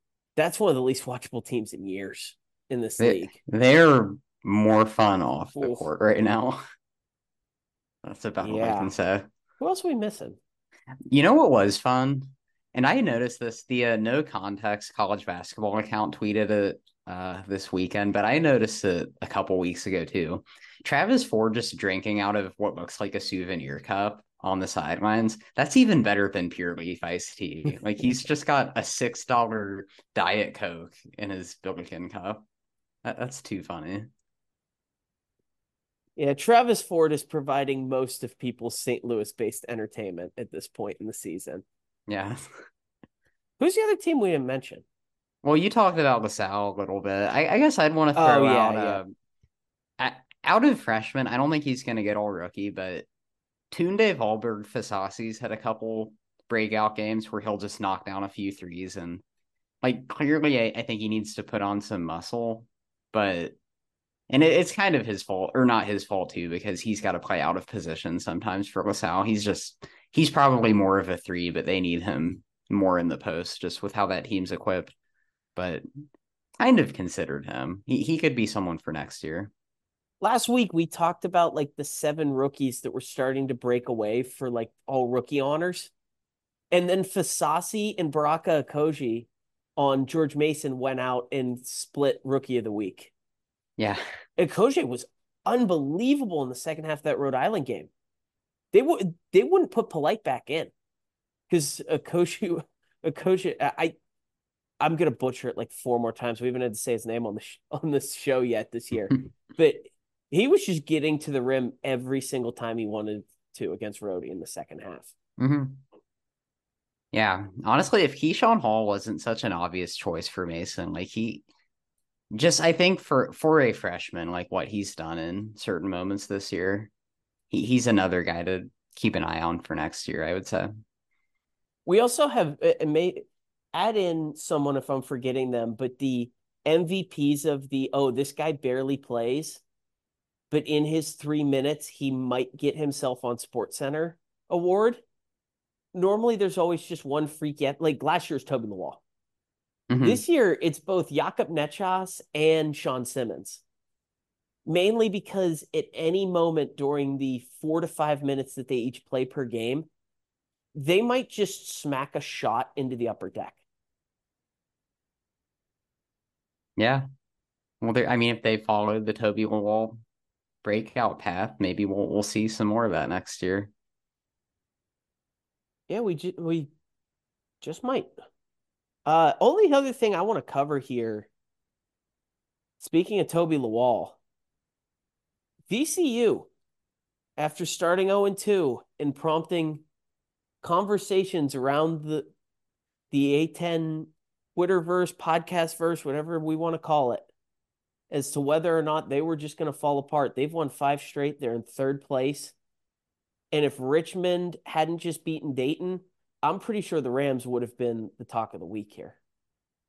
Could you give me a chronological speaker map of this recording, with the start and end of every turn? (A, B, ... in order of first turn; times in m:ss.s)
0:00.4-0:03.4 A
0:03.0-0:06.6 B
0:05.6-0:05.8 A
0:08.0-0:09.3 B
0:08.4-0:08.9 A
0:09.6-0:10.4 A
0:11.1-0:32.4 B
0:33.0-0:34.1 B
0:36.2-0:41.6 A
0:42.1-0:42.6 B
0:43.6-0:44.8 A
0:45.4-0:49.1 B
0:48.2-0:49.0 A
0:50.0-0:53.1 B
0:53.7-0:59.2 B
0:59.8-1:03.6 B
1:04.3-1:14.9 B
1:15.6-1:15.8 B
1:16.6-1:19.5 B
1:20.2-1:25.9 A
1:26.7-1:33.1 A
1:34.4-1:37.9 A
1:38.7-1:40.7 A
1:41.5-1:43.9 A
1:44.8-1:55.1 A
1:55.4-1:55.8 B
1:57.1-2:01.4 B
2:02.3-2:06.9 B
2:07.5-2:10.8 B
2:11.8-2:19.6 A
2:20.5-2:25.0 A
2:25.9-2:29.0 A
2:29.9-2:30.2 B
2:30.0-2:33.6 A
2:34.6-2:39.9 A
2:40.7-2:43.6 A
2:46.8-2:47.1 B
2:47.8-2:50.0 B
2:50.6-2:53.7 B
2:55.9-2:56.7 A
2:57.6-2:58.1 A
2:59.0-3:01.3 A
3:02.8-3:04.2 A
3:05.7-3:06.5 A
3:07.4-3:09.8 A
3:10.6-3:12.3 A
3:13.1-3:17.3 A
3:18.1-3:22.5 A
3:23.5-3:29.2 A